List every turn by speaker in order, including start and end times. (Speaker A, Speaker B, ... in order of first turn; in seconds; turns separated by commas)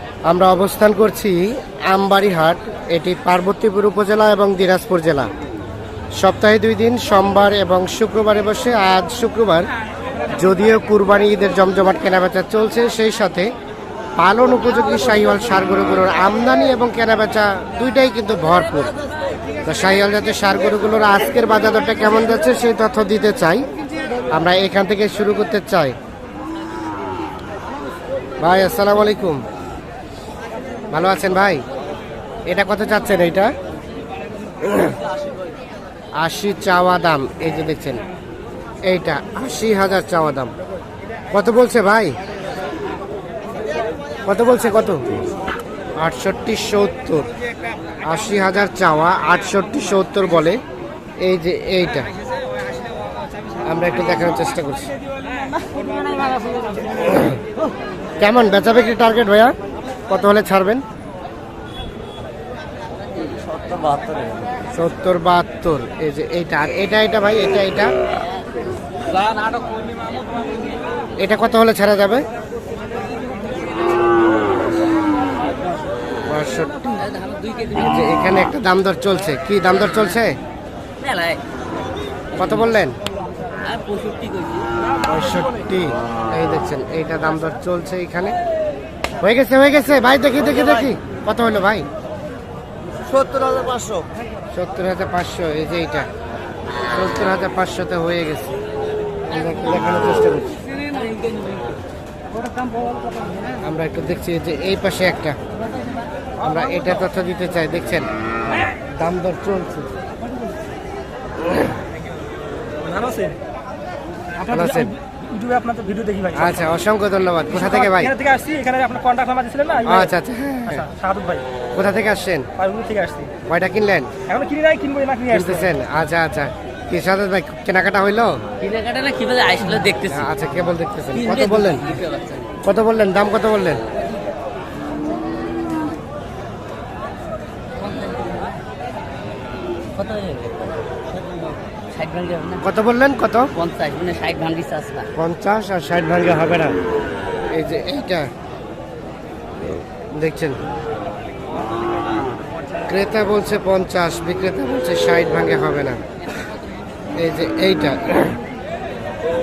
Speaker A: 0.2-5.3, Speaker A: 6.2-9.7, Speaker A: 10.3-13.5, Speaker A: 14.2-18.9, Speaker A: 19.6-23.6, Speaker A: 24.3-26.0, Speaker A: 28.4-29.4, Speaker A: 30.9-31.6, Speaker A: 32.5-33.5, Speaker A: 36.2-38.0, Speaker A: 38.8-40.5, Speaker A: 41.3-42.2, Speaker A: 44.2-45.0, Speaker A: 46.0-47.3, Speaker A: 48.0-50.6, Speaker A: 51.2-52.1, Speaker A: 53.7-54.9, Speaker A: 57.0-57.4, Speaker A: 58.2-59.5, Speaker A: 60.1-60.8, Speaker B: 63.7-64.3, Speaker A: 64.7-67.9, Speaker A: 71.2-72.2, Speaker A: 76.3-77.1, Speaker B: 77.0-78.1, Speaker A: 77.8-80.4, Speaker B: 81.0-81.4, Speaker B: 82.3-82.7, Speaker A: 82.4-83.0, Speaker B: 83.6-84.7, Speaker A: 85.0-88.3, Speaker A: 89.2-91.9, Speaker B: 93.2-94.0, Speaker A: 94.5-96.1, Speaker A: 96.9-98.6, Speaker A: 99.3-100.6, Speaker A: 103.6-105.4, Speaker A: 106.4-108.1, Speaker A: 108.9-109.9, Speaker C: 112.8-113.4, Speaker C: 114.4-116.7, Speaker A: 114.5-114.9, Speaker A: 116.3-118.1, Speaker C: 117.5-120.1, Speaker A: 119.8-120.9, Speaker C: 120.7-121.4, Speaker A: 121.8-122.5, Speaker C: 122.6-123.3, Speaker A: 123.5-124.2, Speaker C: 124.3-125.7, Speaker A: 125.3-128.4, Speaker B: 128.6-130.3, Speaker A: 130.1-132.0, Speaker B: 131.1-132.6, Speaker A: 132.7-133.8, Speaker B: 137.8-138.3, Speaker B: 139.9-140.7, Speaker B: 141.9-142.7, Speaker A: 142.6-143.5, Speaker B: 143.6-145.1, Speaker A: 145.2-146.8, Speaker A: 147.5-148.3, Speaker A: 150.1-150.6, Speaker A: 152.9-156.0, Speaker A: 157.2-158.4